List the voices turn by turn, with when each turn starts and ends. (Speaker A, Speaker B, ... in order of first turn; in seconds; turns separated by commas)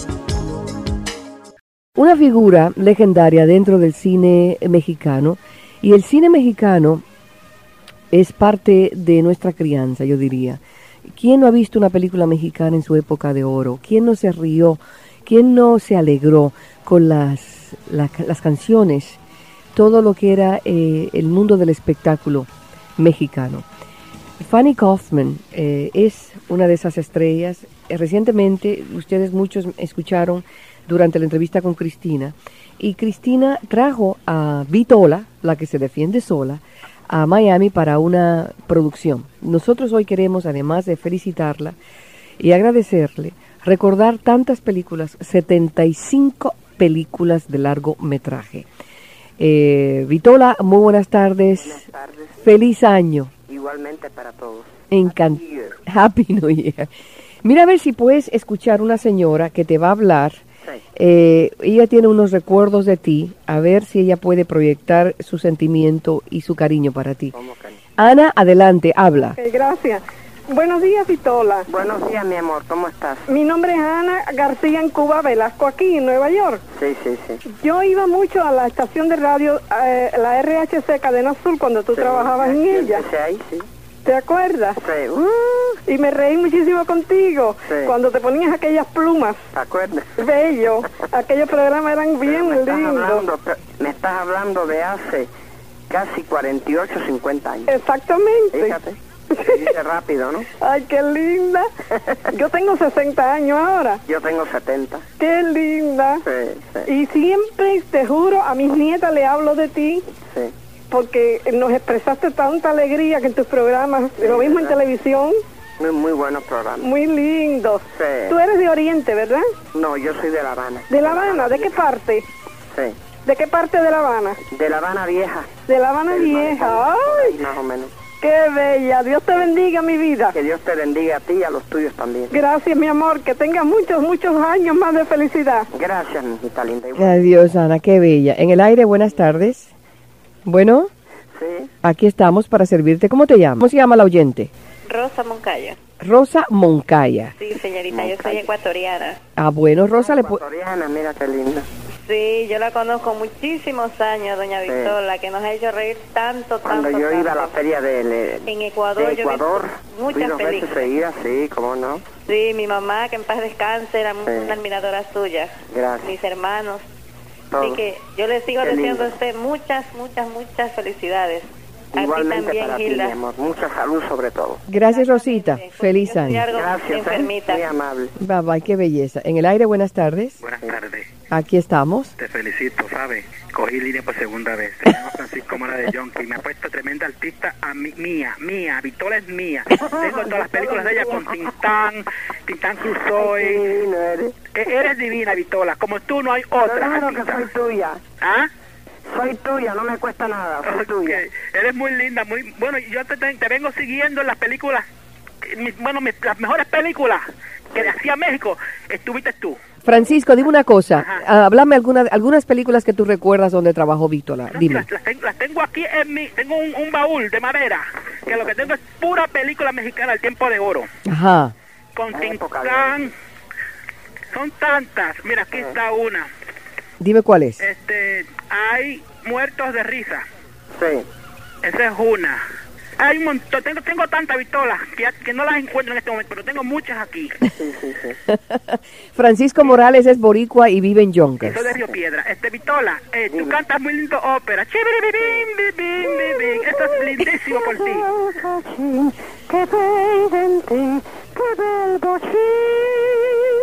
Speaker A: 1.9-7.0, Speaker A: 8.1-19.2, Speaker A: 19.7-23.6, Speaker A: 24.4-41.8, Speaker A: 42.4-48.7, Speaker A: 49.4-51.8, Speaker B: 51.6-52.4, Speaker A: 52.4-53.3, Speaker B: 53.5-55.8, Speaker A: 54.9-56.9, Speaker A: 57.4-60.4, Speaker A: 61.0-67.3, Speaker B: 67.3-67.8, Speaker A: 68.0-69.4, Speaker C: 69.4-71.7, Speaker B: 71.7-73.3, Speaker C: 73.3-76.6, Speaker B: 76.7-77.4, Speaker C: 77.5-83.0, Speaker B: 82.0-83.7, Speaker C: 84.0-84.8, Speaker B: 84.8-85.8, Speaker C: 85.9-89.4, Speaker B: 87.7-87.9, Speaker B: 89.5-90.1, Speaker C: 90.2-93.2, Speaker B: 92.3-95.3, Speaker B: 95.9-97.7, Speaker C: 97.7-98.8, Speaker B: 98.5-100.5, Speaker C: 99.3-99.7, Speaker C: 100.6-101.7, Speaker C: 102.3-104.0, Speaker B: 104.1-105.0, Speaker C: 105.2-106.2, Speaker B: 106.2-106.9, Speaker C: 106.9-110.0, Speaker C: 110.9-115.4, Speaker B: 114.2-114.8, Speaker B: 115.8-116.9, Speaker C: 116.8-119.5, Speaker B: 117.9-118.4, Speaker B: 119.7-121.7, Speaker C: 120.9-122.2, Speaker C: 123.3-124.4, Speaker B: 124.5-125.5, Speaker C: 125.7-127.4, Speaker B: 126.1-127.9, Speaker C: 128.2-130.4, Speaker B: 130.3-132.3, Speaker C: 132.3-135.7, Speaker B: 135.7-137.3, Speaker A: 137.0-139.7, Speaker A: 140.4-140.9, Speaker B: 141.4-141.7, Speaker A: 141.8-144.5, Speaker D: 144.9-145.8, Speaker A: 146.0-147.3, Speaker D: 147.4-149.2, Speaker B: 147.9-148.4, Speaker A: 149.4-150.4, Speaker B: 150.0-151.7, Speaker D: 152.1-157.6, Speaker B: 154.7-155.0, Speaker B: 156.7-162.0, Speaker D: 158.5-160.9, Speaker D: 162.3-166.8, Speaker B: 164.3-164.6, Speaker B: 165.7-166.2, Speaker B: 167.5-167.8, Speaker D: 167.6-173.2, Speaker B: 168.6-169.2, Speaker B: 171.9-174.6, Speaker A: 174.7-176.5, Speaker D: 174.9-177.7, Speaker B: 176.5-178.1, Speaker A: 178.2-180.4, Speaker E: 180.4-181.1, Speaker A: 181.3-182.1, Speaker E: 182.2-193.7, Speaker B: 189.9-191.3, Speaker B: 193.2-194.3, Speaker E: 194.5-197.4, Speaker B: 196.6-198.0, Speaker E: 198.2-198.5, Speaker B: 199.1-201.2, Speaker E: 200.7-204.8, Speaker E: 205.4-209.6, Speaker A: 209.8-214.9, Speaker E: 214.5-220.9, Speaker A: 221.1-221.6, Speaker E: 222.0-223.1, Speaker B: 222.1-223.1, Speaker E: 224.3-226.3, Speaker A: 227.0-227.6, Speaker E: 227.6-230.2, Speaker B: 230.7-231.1, Speaker E: 231.6-232.4, Speaker E: 233.0-237.3, Speaker B: 237.6-238.2, Speaker A: 238.3-241.8, Speaker E: 241.4-248.1, Speaker B: 243.3-243.6, Speaker B: 245.2-245.5, Speaker B: 246.1-253.4